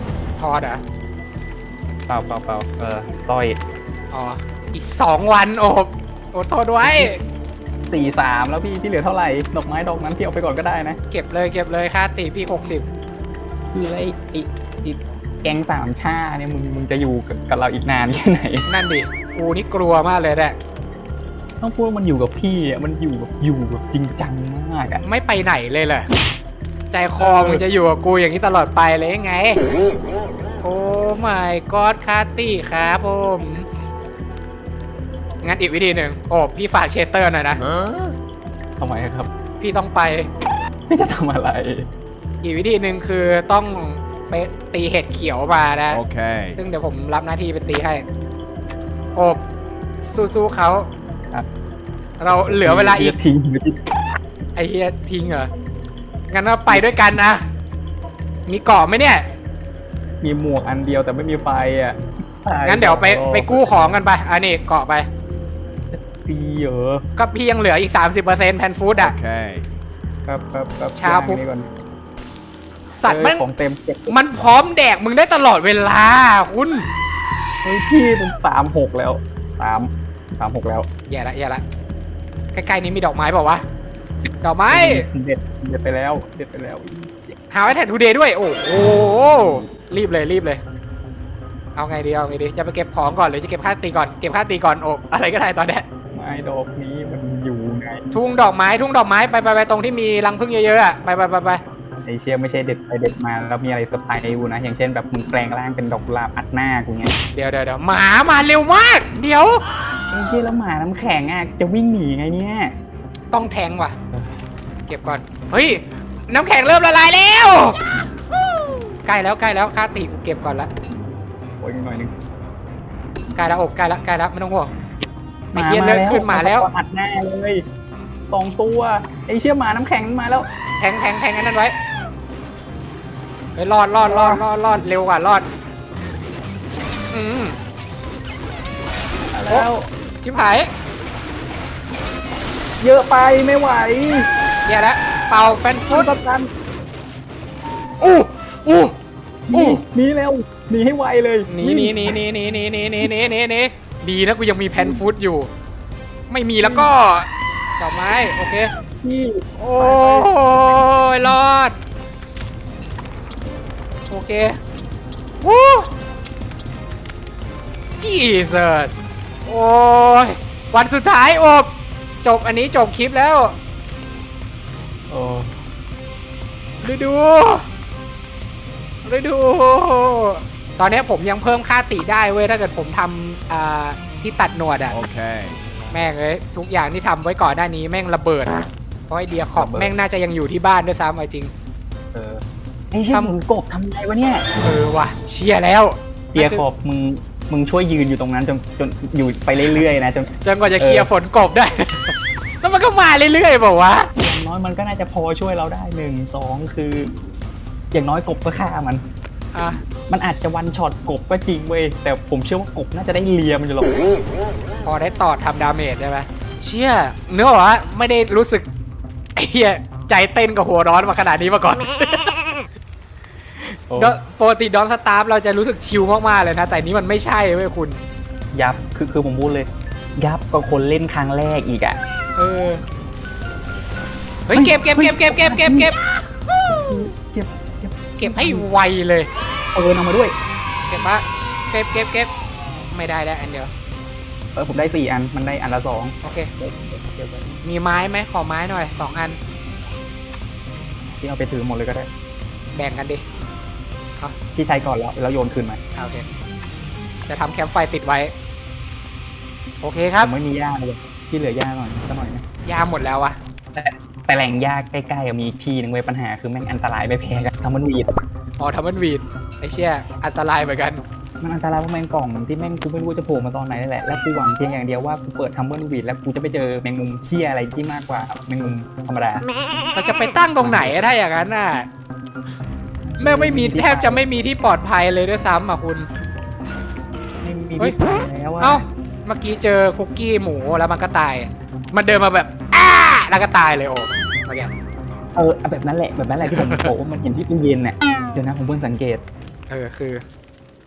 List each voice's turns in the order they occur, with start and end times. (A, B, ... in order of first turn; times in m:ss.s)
0:00.4-0:00.8 A
0:02.1-0:03.6 B
0:04.1-0:07.2 A
0:06.8-0:07.2 B
0:07.9-0:11.0 B
0:11.1-0:12.9 A
0:13.7-0:18.7 B
0:18.7-0:20.6 A
0:21.6-0:25.0 B
0:25.0-0:26.1 A
0:26.9-0:29.6 A
0:27.2-0:27.6 B
0:30.6-0:33.7 A
0:35.4-0:37.6 A
0:37.7-0:37.9 C
0:38.8-0:39.3 B
0:39.6-0:40.3 A
0:40.9-0:41.9 B
0:42.4-0:46.0 A
0:45.9-0:46.6 C
0:46.6-0:48.0 A
0:49.2-0:49.4 A
0:50.0-0:50.9 A
0:52.2-0:53.2 A
0:52.3-0:53.8 B
0:54.6-0:55.5 A
0:56.3-0:57.4 A
0:56.7-0:57.1 B
0:58.5-0:59.2 A
1:00.2-1:04.0 B
1:02.6-1:05.1 A
1:05.9-1:07.0 B
1:07.2-1:09.2 A
1:09.0-1:09.7 C
1:10.3-1:11.7 B
1:11.0-1:11.4 A
1:12.9-1:13.5 A
1:13.1-1:14.2 B
1:14.1-1:16.9 A
1:17.6-1:20.9 B
1:21.1-1:21.6 A
1:22.5-1:23.6 A
1:24.4-1:25.0 A
1:24.7-1:27.4 B
1:27.5-1:30.6 A
1:31.8-1:35.8 A
1:36.1-1:38.1 B
1:38.1-1:41.6 A
1:42.0-1:47.1 B
1:47.3-1:49.6 A
1:50.1-1:52.7 B
1:53.3-1:54.0 A
1:54.9-1:57.8 A
1:59.0-2:00.7 A
2:01.6-2:02.1 B
2:03.4-2:04.7 A
2:05.5-2:07.6 B
2:05.5-2:06.7 A
2:08.3-2:10.5 B
2:10.8-2:11.7 A
2:13.6-2:15.5 A
2:14.0-2:14.4 B
2:17.1-2:17.6 A
2:19.3-2:19.9 B
2:20.2-2:20.7 A
2:22.8-2:24.3 B
2:24.6-2:26.1 A
2:25.9-2:26.5 B
2:28.0-2:29.0 A
2:29.5-2:32.2 B
2:29.5-2:29.8 A
2:31.5-2:35.5 A
2:34.8-2:35.0 B
2:36.3-2:37.3 A
2:36.6-2:36.9 B
2:37.8-2:38.7 A
2:39.0-2:40.9 B
2:39.6-2:41.8 A
2:44.1-2:44.6 A
2:45.4-2:45.9 A
2:48.0-2:51.7 A
2:52.2-2:53.6 A
2:55.1-2:55.5 B
2:56.8-2:57.6 A
2:59.0-3:05.0 A
3:04.9-3:05.6 C
3:05.9-3:11.5 A
3:09.6-3:10.0 B
3:12.1-3:14.5 B
3:14.6-3:16.6 A
3:16.4-3:21.1 B
3:20.4-3:24.1 A
3:24.2-3:27.1 B
3:27.9-3:29.0 B
3:29.5-3:29.8 A
3:30.1-3:34.0 B
3:34.8-3:38.7 A
3:39.4-3:42.3 A
3:43.9-3:44.2 B
3:44.0-3:48.0 A
3:48.5-3:52.0 B
3:52.4-3:52.8 A
3:54.5-3:56.0 A
3:54.5-3:55.9 B
3:56.7-3:58.7 B
3:58.2-3:59.3 A
3:59.7-4:00.4 B
4:00.9-4:02.3 A
4:02.9-4:03.7 A
4:04.6-4:07.6 B
4:06.2-4:06.5 A
4:07.6-4:09.4 A
4:11.0-4:12.1 B
4:12.7-4:13.2 A
4:14.6-4:15.8 B
4:16.0-4:16.3 A
4:17.3-4:18.3 A
4:19.8-4:20.3 A
4:20.2-4:22.4 B
4:22.6-4:23.4 A
4:23.7-4:28.2 B
4:28.6-4:31.0 A
4:31.4-4:39.5 B
4:40.0-4:41.9 A
4:40.6-4:41.0 B
4:43.1-4:44.3 B
4:43.2-4:46.1 A
4:47.4-4:48.9 B
4:48.6-4:54.7 A
4:55.4-4:59.2 B
4:56.4-4:56.9 A
4:59.7-5:00.2 A